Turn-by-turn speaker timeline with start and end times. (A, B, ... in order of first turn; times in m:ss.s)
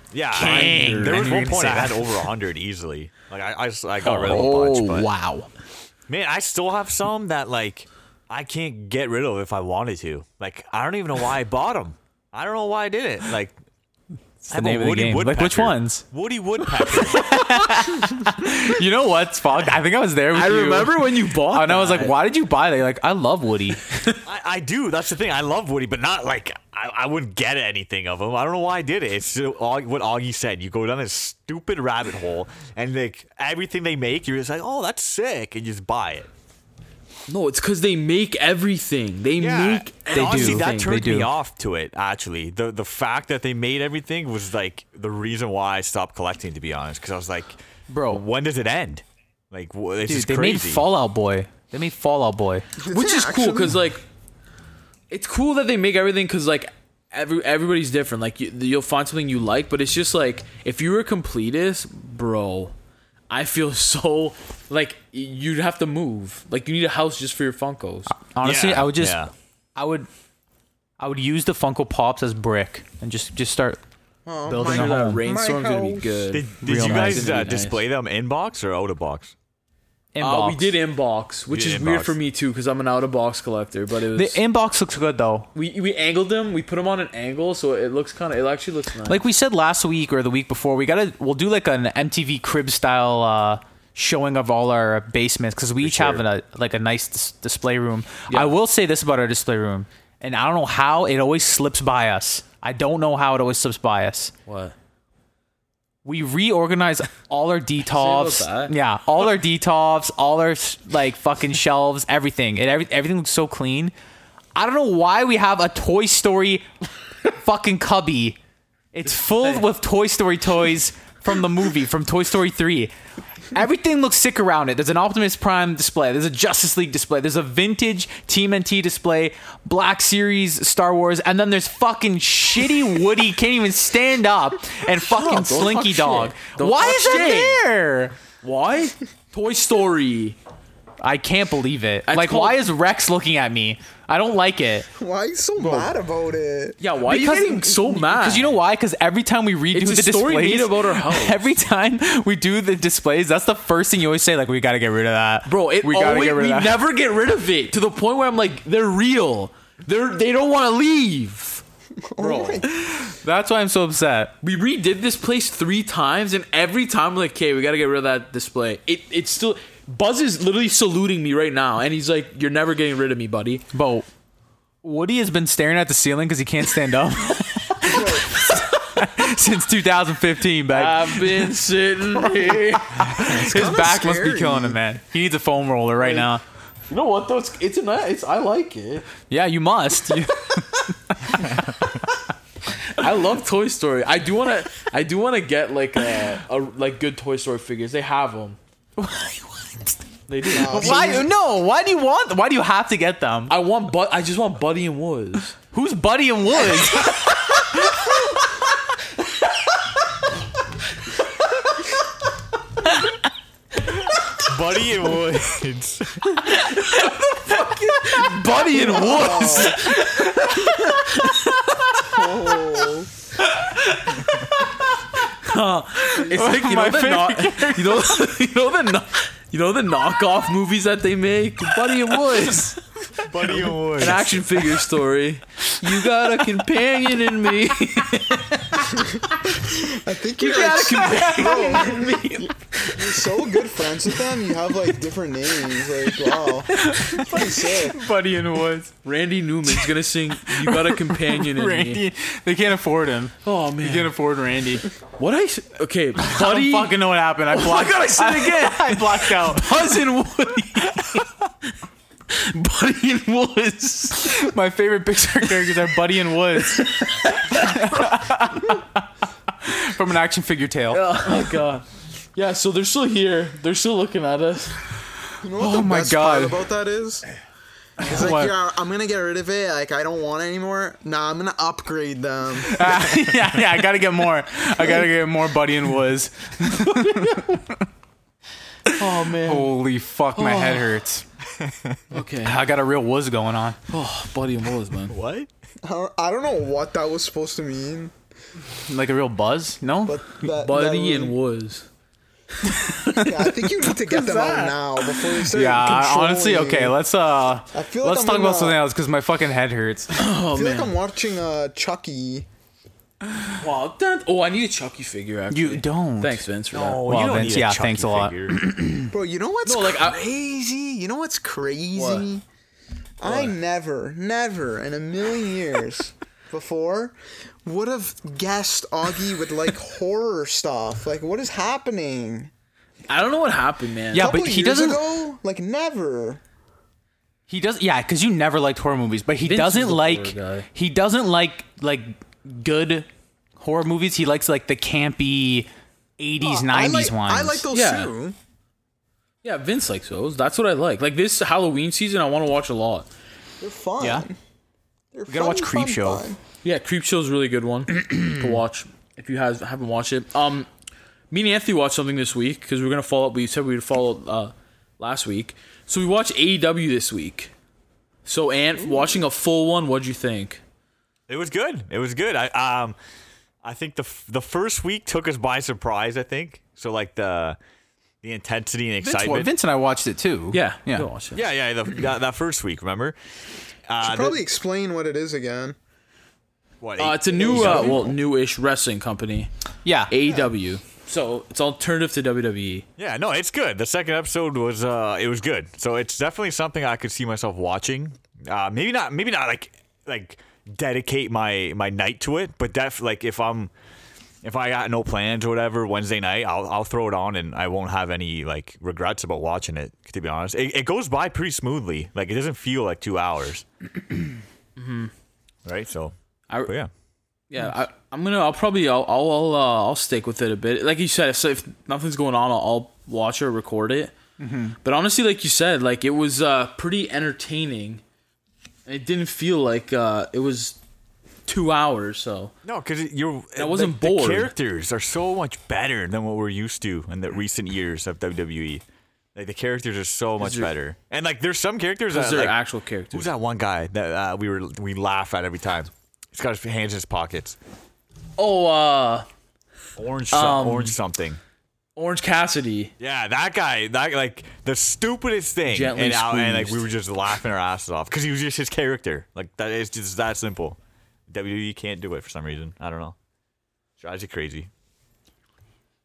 0:00.1-0:05.1 A
0:00.3-0:01.4 B
0:00.3-0:02.1 C
0:04.0-0:05.5 C
0:06.1-0:13.5 A
0:14.4-0:16.0 C
0:14.5-0:17.4 A
0:16.9-0:24.2 C
0:20.3-0:22.2 B
0:24.2-0:36.3 A
0:37.3-0:41.0 B
0:39.4-0:50.8 A
0:40.1-0:41.3 C
0:47.9-0:48.2 C
0:50.0-0:52.7 C
0:52.8-0:53.8 D
0:52.9-0:54.0 B
0:55.1-1:02.7 B
1:03.3-1:08.1 B
1:08.1-1:10.1 C
1:08.4-1:09.3 A
1:11.0-1:13.8 C
1:14.2-1:16.3 D
1:14.5-1:15.2 C
1:14.6-1:17.8 B
1:16.3-1:19.3 A
1:16.6-1:17.5 C
1:20.1-1:20.7 C
1:20.2-1:24.4 B
1:21.5-1:22.2 A
1:24.1-1:25.5 C
1:25.5-1:29.2 B
1:29.1-1:44.3 C
1:35.8-1:36.2 A
1:44.4-1:44.7 B
1:46.0-1:53.9 C
1:47.8-1:48.7 B
1:54.5-1:56.7 C
1:57.2-1:58.4 C
1:58.9-2:02.9 C
1:59.1-1:59.6 B
2:03.5-2:18.2 C
2:15.0-2:17.6 B
2:18.4-2:20.4 B
2:21.0-2:24.9 C
2:22.0-2:22.6 B
2:25.0-2:27.4 D
2:25.6-2:25.9 B
2:26.8-2:28.6 B
2:27.1-2:36.8 C
2:29.7-2:31.4 B
2:35.4-2:41.6 B
2:42.0-2:42.7 D
2:42.2-2:42.7 B
2:42.7-2:44.3 C
2:44.4-2:53.6 B
2:53.7-2:54.0 C
2:54.8-3:01.5 C
2:57.8-2:58.4 D
3:00.7-3:03.2 B
3:02.2-3:06.4 C
3:03.2-3:04.8 D
3:06.0-3:06.3 B
3:06.9-3:09.1 B
3:09.3-3:12.0 C
3:12.9-3:18.6 B
3:19.0-3:19.9 C
3:20.3-3:21.2 B
3:20.5-3:23.5 C
3:20.6-3:21.3 D
3:23.5-3:25.6 B
3:25.7-3:28.1 C
3:34.3-3:36.4 A
3:36.5-3:42.3 B
3:38.7-3:39.9 D
3:39.2-3:40.9 C
3:42.0-3:43.1 D
3:44.3-3:44.6 C
3:45.3-3:52.8 B
3:46.0-3:48.3 C
3:52.4-3:52.7 C
3:53.2-3:54.4 A
3:54.0-3:59.1 B
3:59.0-4:02.2 D
4:00.4-4:03.4 B
4:01.1-4:01.9 C
4:02.9-4:08.0 D
4:06.7-4:08.9 C
4:09.0-4:12.0 B
4:10.4-4:14.9 C
4:13.4-4:14.1 B
4:15.2-4:21.3 B
4:16.2-4:20.0 C
4:20.8-4:21.2 C
4:22.3-4:24.5 B
4:24.1-4:31.4 C
4:26.6-4:28.0 B
4:30.9-4:34.9 B
4:35.4-4:37.2 D
4:35.6-4:36.6 C
4:38.0-4:42.8 D
4:38.0-4:38.5 C
4:42.7-4:47.8 C
4:46.8-4:47.4 B
4:48.9-4:49.7 B
4:49.3-4:51.2 C
4:50.3-4:51.0 B
4:51.6-4:52.0 A
4:52.1-4:52.7 B
4:52.4-4:53.8 C
4:53.9-4:55.1 B
4:55.1-4:55.5 A
4:55.8-4:58.1 D
4:58.8-5:00.3 C
5:00.0-5:01.4 D
5:00.6-5:01.8 B
5:02.8-5:03.4 B
5:03.1-5:07.0 D
5:03.9-5:04.8 B
5:05.4-5:10.1 C
5:07.7-5:08.8 D
5:10.1-5:10.9 B
5:10.5-5:12.5 D
5:13.6-5:17.0 B
5:15.5-5:16.4 C
5:16.7-5:18.6 A
5:17.0-5:19.1 C
5:19.1-5:22.4 D
5:19.6-5:20.2 B
5:22.0-5:22.2 B
5:23.2-5:32.5 D
5:23.2-5:23.5 B
5:33.1-5:34.3 B
5:34.1-5:35.0 C
5:34.1-5:36.4 D
5:37.5-5:43.1 C
5:39.4-5:40.7 B
5:43.6-5:47.6 C
5:46.4-5:48.4 D
5:47.7-5:48.1 B
5:49.4-5:53.1 B
5:53.6-5:54.4 D
5:55.1-5:56.4 D
5:55.3-5:56.2 C
5:56.6-6:00.7 B
6:01.3-6:07.5 B
6:08.2-6:10.6 B
6:11.3-6:13.0 A
6:13.6-6:17.6 A
6:18.2-6:19.5 A
6:19.0-6:21.1 C
6:20.5-6:21.4 B
6:21.3-6:23.2 A
6:23.9-6:24.4 A
6:24.0-6:25.8 D
6:26.8-6:28.1 A
6:27.0-6:29.5 B
6:27.4-6:28.1 D
6:29.8-6:30.1 C
6:30.1-6:32.8 B
6:33.0-6:43.7 A
6:44.4-6:53.6 A
6:54.8-6:55.1 B
6:55.6-6:56.1 A
6:56.6-6:56.9 A
6:57.5-7:04.1 B
7:04.4-7:04.7 C
7:04.8-7:08.0 B
7:08.9-7:10.8 B
7:11.4-7:12.5 B
7:12.6-7:18.8 A
7:13.6-7:14.5 B
7:19.3-7:22.6 A
7:20.4-7:20.7 B
7:22.1-7:23.3 B
7:23.1-7:27.6 A
7:28.4-7:29.2 B
7:30.0-7:31.4 A
7:30.3-7:30.9 B
7:32.0-7:32.9 B
7:33.0-7:40.8 A
7:35.7-7:36.9 B
7:41.3-7:43.2 A
7:44.0-7:44.7 A